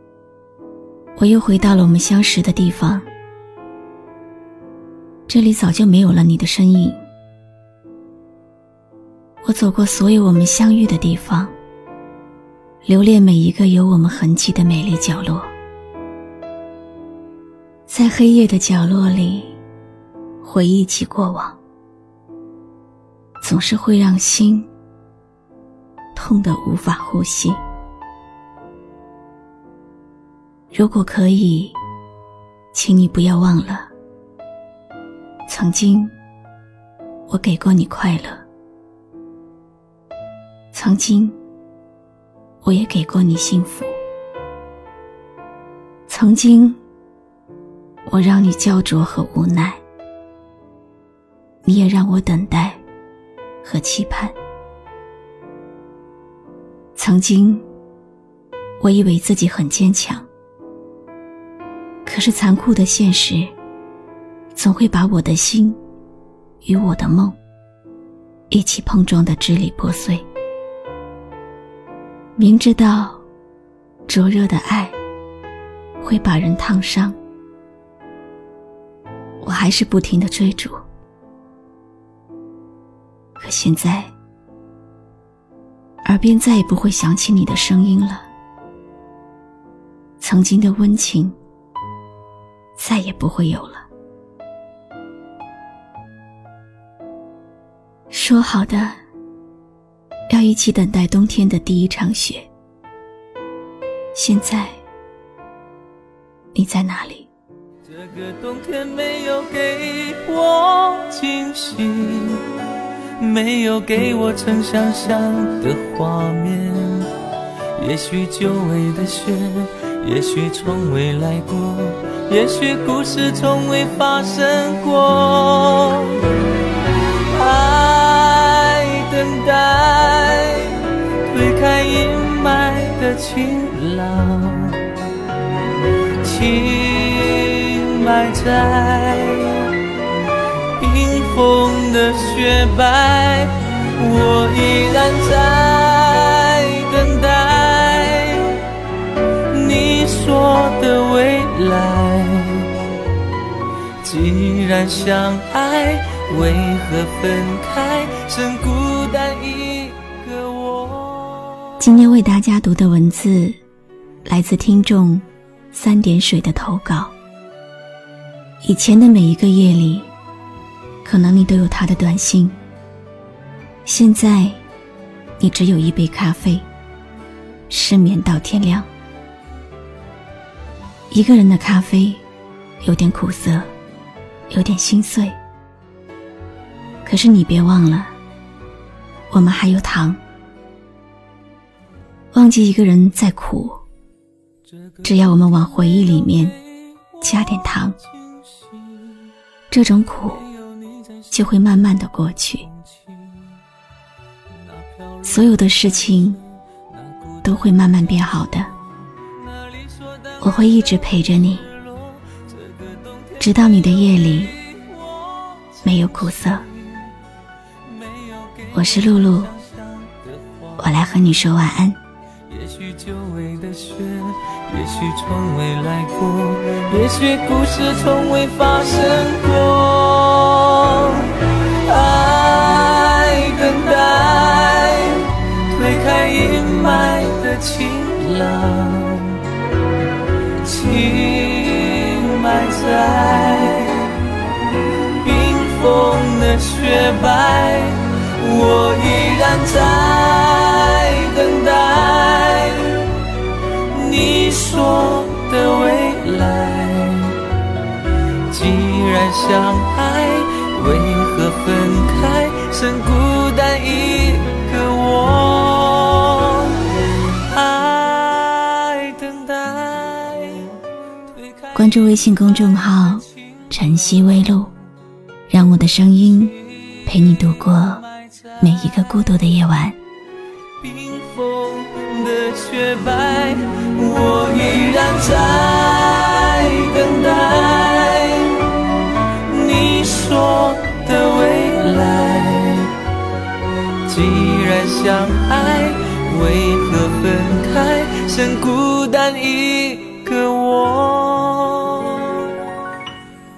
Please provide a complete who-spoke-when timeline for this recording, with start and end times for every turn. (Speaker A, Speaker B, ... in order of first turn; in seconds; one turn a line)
Speaker A: 1.2-3.1
Speaker A: 5.3-7.0
Speaker A: 9.4-11.5
Speaker A: 12.8-15.5
Speaker A: 17.9-19.6
Speaker A: 20.4-21.6
Speaker A: 23.4-24.7
Speaker A: 26.1-27.6
Speaker A: 30.7-31.8
Speaker A: 32.7-33.9
Speaker A: 35.5-36.1
Speaker A: 37.3-38.4
Speaker A: 40.7-41.4
Speaker A: 42.6-44.0
Speaker A: 46.1-46.8
Speaker A: 48.1-49.8
Speaker A: 51.6-52.8
Speaker A: 53.6-54.4
Speaker A: 57.0-57.6
Speaker A: 58.8-60.3
Speaker A: 62.0-63.5
Speaker A: 64.5-65.8
Speaker A: 66.6-67.4
Speaker A: 68.5-70.2
Speaker A: 72.4-73.2
Speaker A: 74.1-75.0
Speaker A: 76.0-77.2
Speaker A: 79.4-80.8
Speaker A: 83.4-84.1
Speaker A: 86.0-88.3
Speaker A: 90.2-91.4
Speaker A: 92.8-93.9
Speaker A: 98.1-99.0
Speaker A: 100.3-102.5
Speaker A: 104.1-104.8
Speaker A: 106.5-107.3
Speaker B: 107.9-112.5
Speaker B: 113.2-117.1
Speaker B: 117.8-126.4
Speaker B: 127.1-134.9
Speaker B: 136.2-139.8
Speaker B: 140.8-152.9
Speaker B: 154.0-161.8
Speaker A: 161.8-163.6
Speaker A: 164.2-167.1
Speaker A: 168.6-170.1
Speaker A: 171.0-172.6
Speaker A: 173.9-174.6
Speaker A: 175.4-176.7
Speaker A: 177.7-178.9
Speaker A: 181.1-182.2
Speaker A: 182.8-183.7
Speaker A: 184.5-185.4
Speaker A: 187.0-188.1
Speaker A: 189.3-190.2
Speaker A: 192.3-193.8
Speaker B: 194.9-195.2
Speaker A: 195.0-196.6
Speaker A: 197.2-198.0
Speaker B: 198.2-199.3
Speaker A: 199.7-200.5
Speaker B: 200.5-201.3
Speaker A: 201.3-202.7
Speaker B: 203.0-203.6
Speaker B: 204.6-207.4
Speaker A: 205.2-206.4
Speaker A: 207.4-208.7
Speaker B: 209.5-210.6
Speaker A: 210.4-211.7
Speaker B: 211.7-217.1
Speaker A: 213.4-214.6
Speaker A: 215.8-216.6
Speaker B: 217.9-220.8
Speaker A: 218.7-219.5
Speaker A: 220.8-222.0
Speaker B: 222.5-239.4
Speaker B: 240.5-244.3
Speaker B: 245.1-257.5
Speaker B: 258.4-270.8
Speaker B: 271.3-271.8
Speaker A: 271.7-274.7
Speaker A: 275.5-278.0
Speaker A: 278.6-280.0
Speaker B: 280.8-293.0
Speaker B: 294.0-302.7